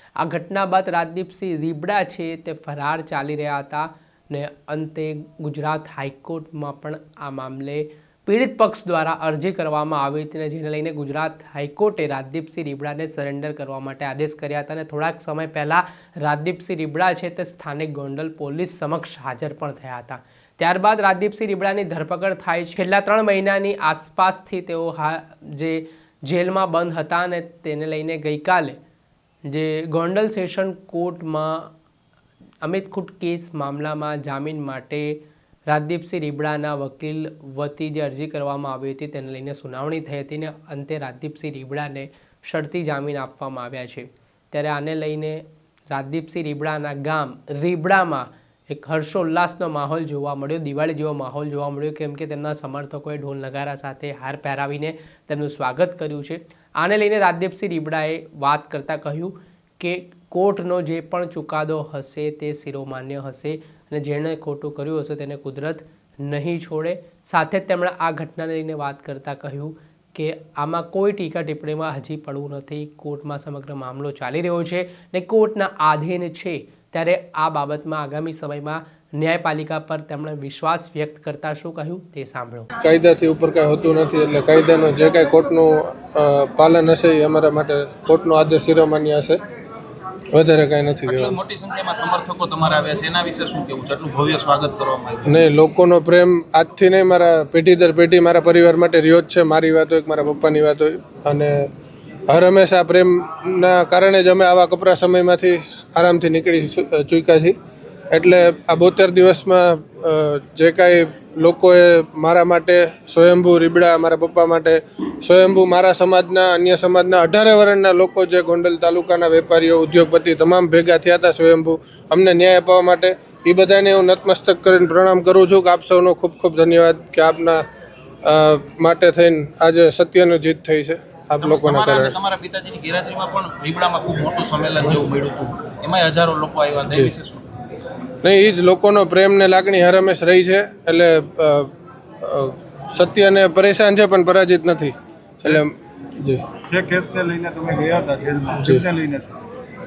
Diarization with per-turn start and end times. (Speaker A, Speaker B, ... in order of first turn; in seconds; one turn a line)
Speaker A: 0.2-28.8
Speaker A: 29.4-31.7
Speaker A: 32.6-82.7
Speaker B: 82.8-89.4
Speaker B: 90.3-91.4
Speaker C: 91.1-95.4
Speaker B: 95.3-101.7
Speaker B: 102.3-107.5
Speaker B: 108.1-127.6
Speaker B: 128.2-132.2
Speaker C: 131.4-137.4
Speaker B: 138.2-146.4
Speaker D: 146.7-149.5
Speaker B: 148.6-148.9